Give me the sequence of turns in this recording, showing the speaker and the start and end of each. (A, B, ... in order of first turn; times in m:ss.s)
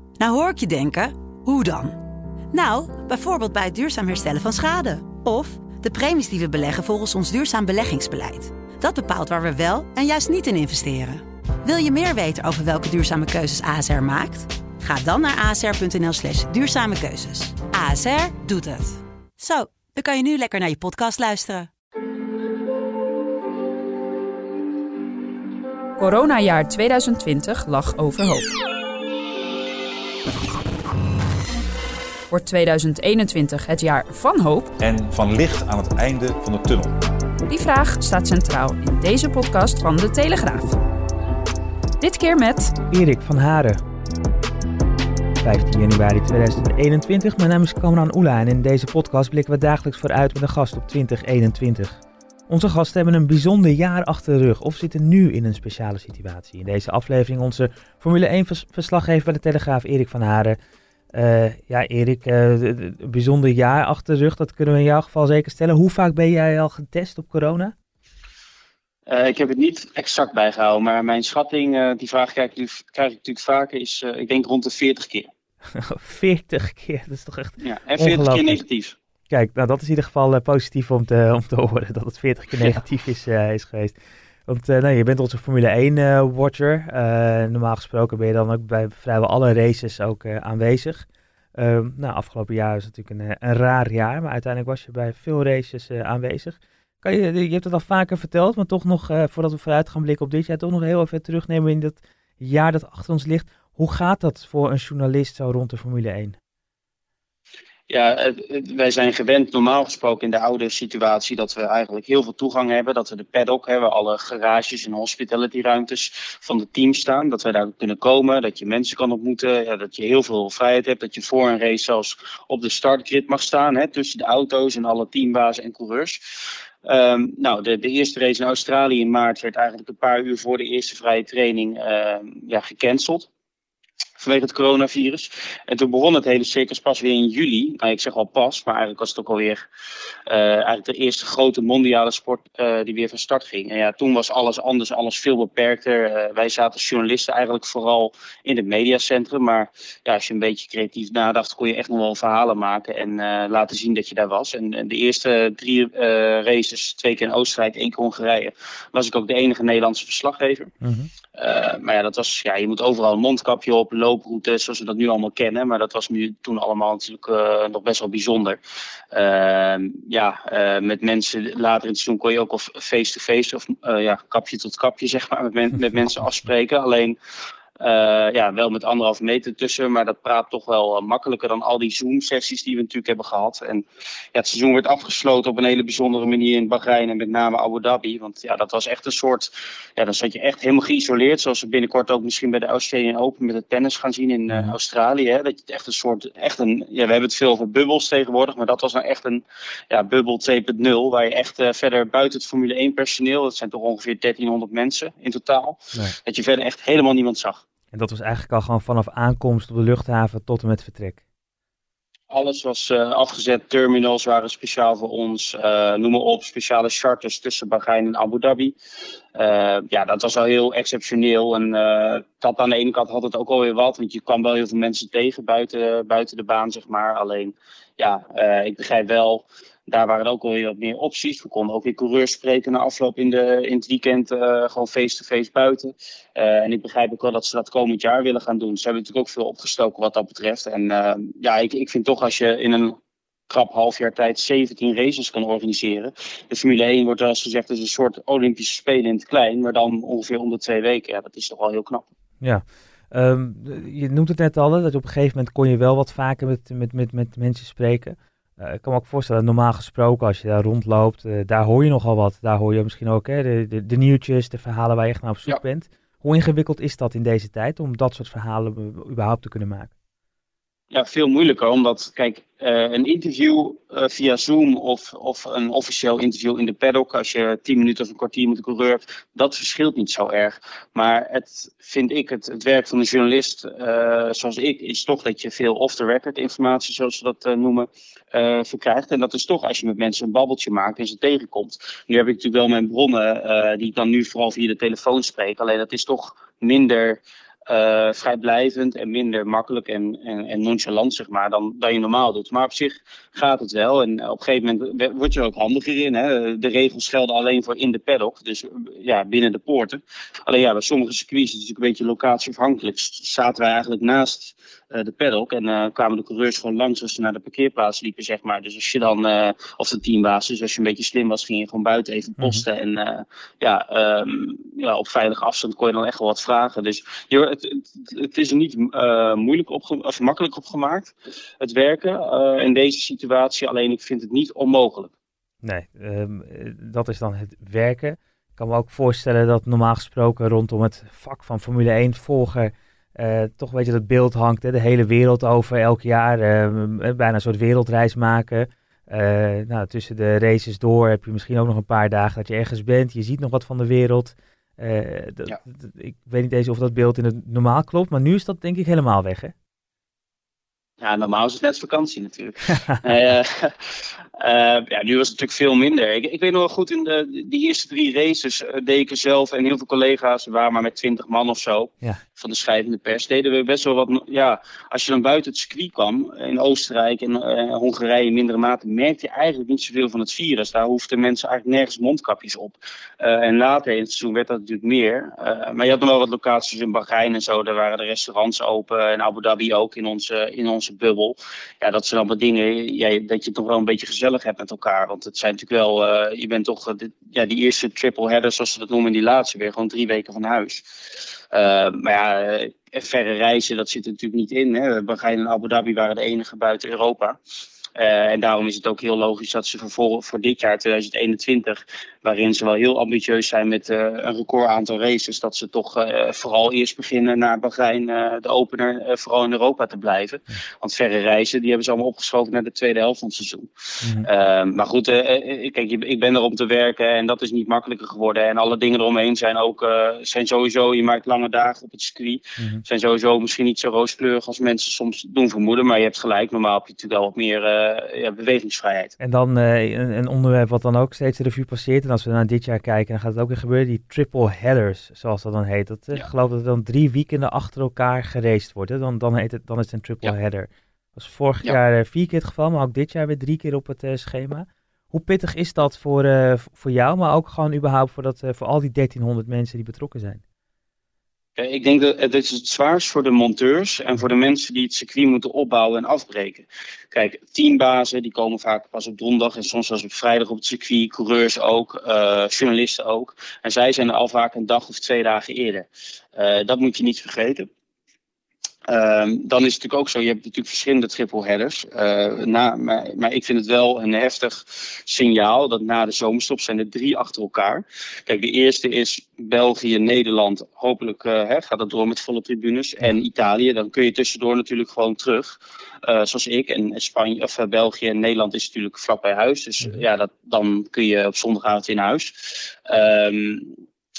0:00.2-0:02.0 A
0:02.5-0:21.7 A
0:26.0-0:28.5 B
0:32.3-0:34.7 B
0:34.8-0:37.0 C
0:37.5-0:40.8 B
0:42.0-0:42.7 B
0:42.9-0:43.8 D
0:45.4-1:00.6 D
1:01.1-1:07.7 D
1:09.1-1:15.3 E
1:15.8-1:18.6 D
1:17.6-1:19.0 E
1:19.3-1:24.0 D
1:24.5-1:31.0 D
1:31.6-1:46.4 D
1:47.9-2:06.2 E
2:06.8-2:13.3 E
2:14.2-2:19.7 E
2:20.3-2:40.7 E
2:40.8-2:41.1 D
2:41.4-2:48.6 E
2:49.1-2:57.2 E
2:57.8-3:27.6 E
3:14.5-3:14.7 D
3:27.9-3:31.2 D
3:32.3-3:38.8 E
3:39.4-4:03.0 E
4:03.5-4:12.0 E
4:12.4-4:29.9 D
4:30.9-5:35.1 E
5:35.6-5:59.5 D
6:01.0-6:03.7 E
6:04.4-6:40.8 E
6:41.5-6:47.4 E
6:48.0-7:03.7 E
7:04.2-7:19.2 E
7:19.2-7:40.4 D
7:41.6-7:57.7 E
7:58.9-8:23.7 E